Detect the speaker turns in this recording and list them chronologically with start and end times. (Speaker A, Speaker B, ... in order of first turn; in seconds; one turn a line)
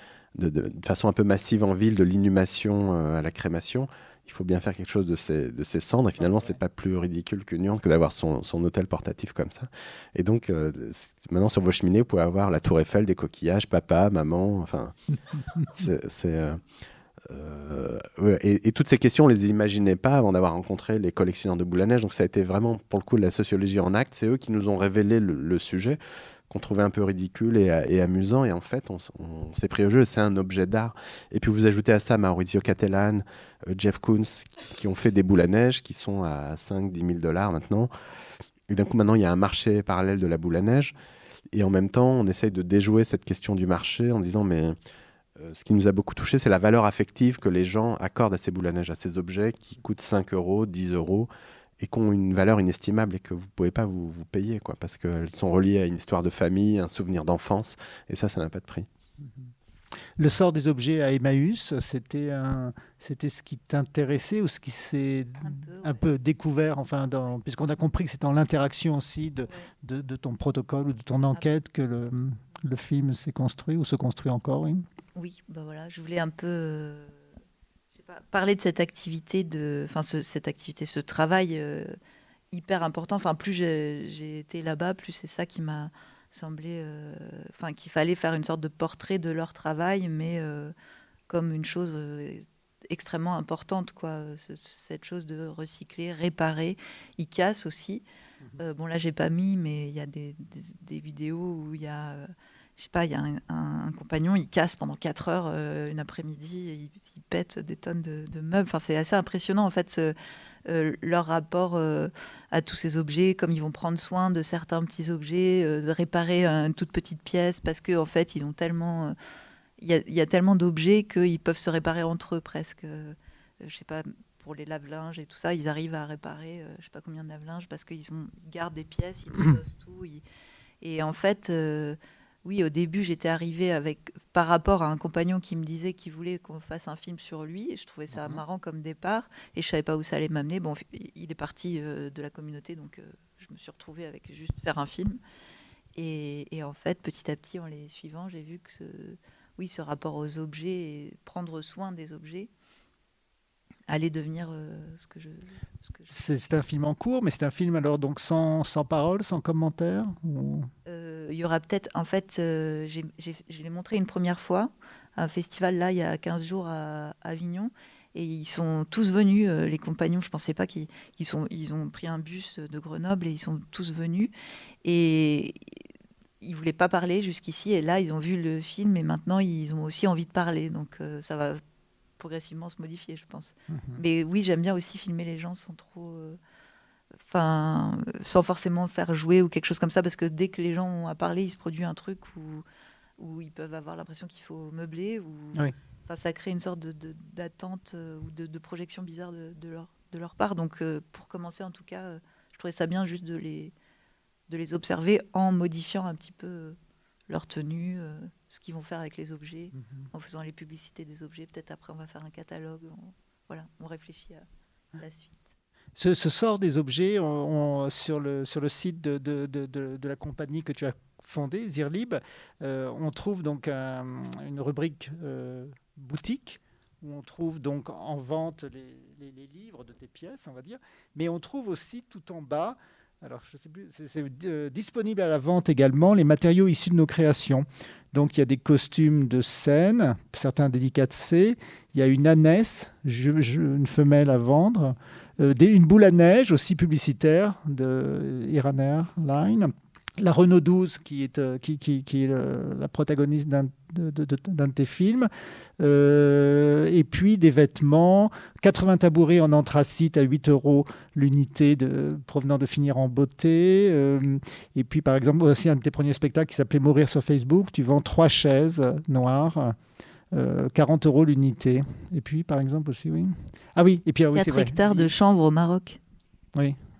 Speaker A: 0.3-14.9
Speaker A: 15.7-16.6
Speaker A: 17.2-37.9
Speaker A: 38.7-40.9
Speaker A: 41.5-44.8
Speaker A: 45.4-51.3
Speaker A: 51.8-58.9
Speaker B: 59.2-59.5
Speaker B: 60.2-74.8
Speaker C: 65.4-66.1
Speaker C: 75.1-77.2
Speaker C: 77.9-82.0
Speaker C: 82.5-90.7
Speaker C: 91.3-98.0
Speaker C: 98.6-110.1
Speaker C: 110.7-119.2
Speaker C: 119.8-130.2
Speaker C: 130.8-145.2
Speaker B: 138.1-138.4
Speaker C: 145.9-152.5
Speaker C: 153.9-156.1
Speaker B: 156.1-160.7
Speaker C: 160.8-174.3
Speaker C: 174.8-175.8
Speaker C: 176.4-181.6
Speaker C: 182.2-186.4
Speaker B: 183.7-184.0
Speaker C: 187.2-192.6
Speaker C: 193.2-203.7
Speaker C: 204.5-214.4
Speaker B: 209.7-210.1
Speaker C: 215.0-215.4
Speaker B: 216.0-255.3
Speaker B: 255.8-269.7
Speaker B: 270.3-275.1
Speaker C: 274.3-276.0